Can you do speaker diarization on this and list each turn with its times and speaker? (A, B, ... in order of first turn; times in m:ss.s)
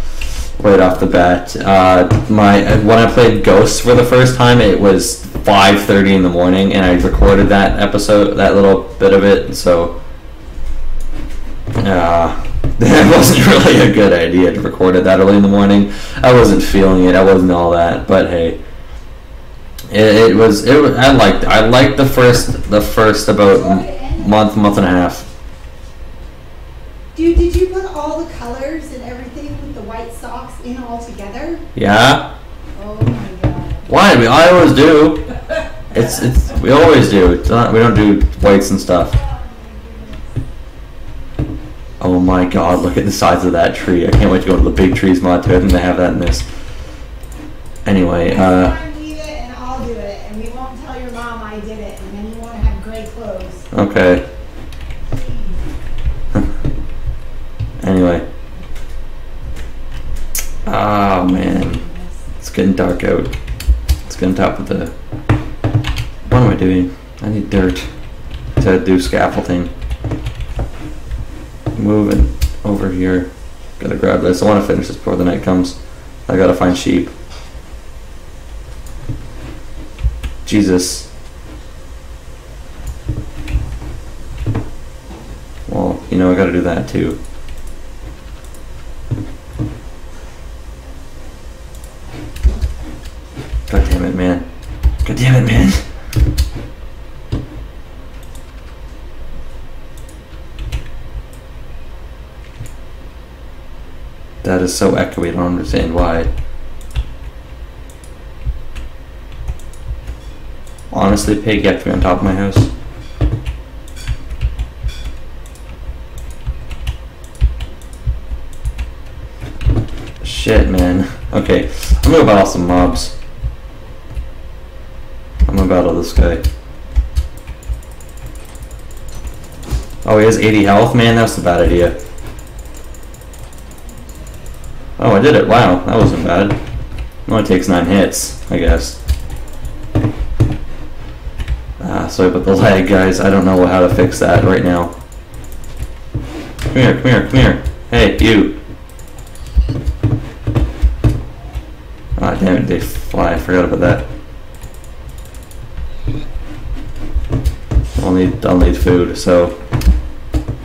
0:00.6-0:10.0 A
0:11.8-0:18.6 A
0:19.9-0:25.3 A
0:23.6-0:24.2 B
0:27.1-0:31.7 B
0:31.8-0:32.3 A
0:32.8-0:33.9 B
0:33.9-0:35.4 A
0:35.9-0:39.2 A
0:39.4-0:40.2 B
0:42.0-0:46.5 A
0:47.8-0:48.8 A
0:48.3-0:53.7 B
0:53.7-0:54.2 A
0:55.1-0:55.6 B
0:57.8-0:58.2 A
1:00.7-1:01.8 A
1:01.8-1:02.1 B
1:02.4-1:03.3 A
1:04.1-1:04.9 A
1:06.3-1:07.9 A
1:08.6-1:09.7 A
1:11.7-1:17.1 A
1:20.4-1:21.1 A
1:25.7-1:27.2 A
1:33.7-1:34.5 A
1:35.0-1:35.9 A
1:44.4-1:46.3 A
1:50.9-1:52.7 A
2:00.2-2:03.1 A
2:05.5-2:06.4 A
2:10.0-2:12.0 A
2:15.0-2:16.6 A
2:17.2-2:19.0 A
2:21.8-2:24.9 A
2:26.7-2:28.6 A
2:32.2-2:34.1 A
2:38.0-2:39.6 A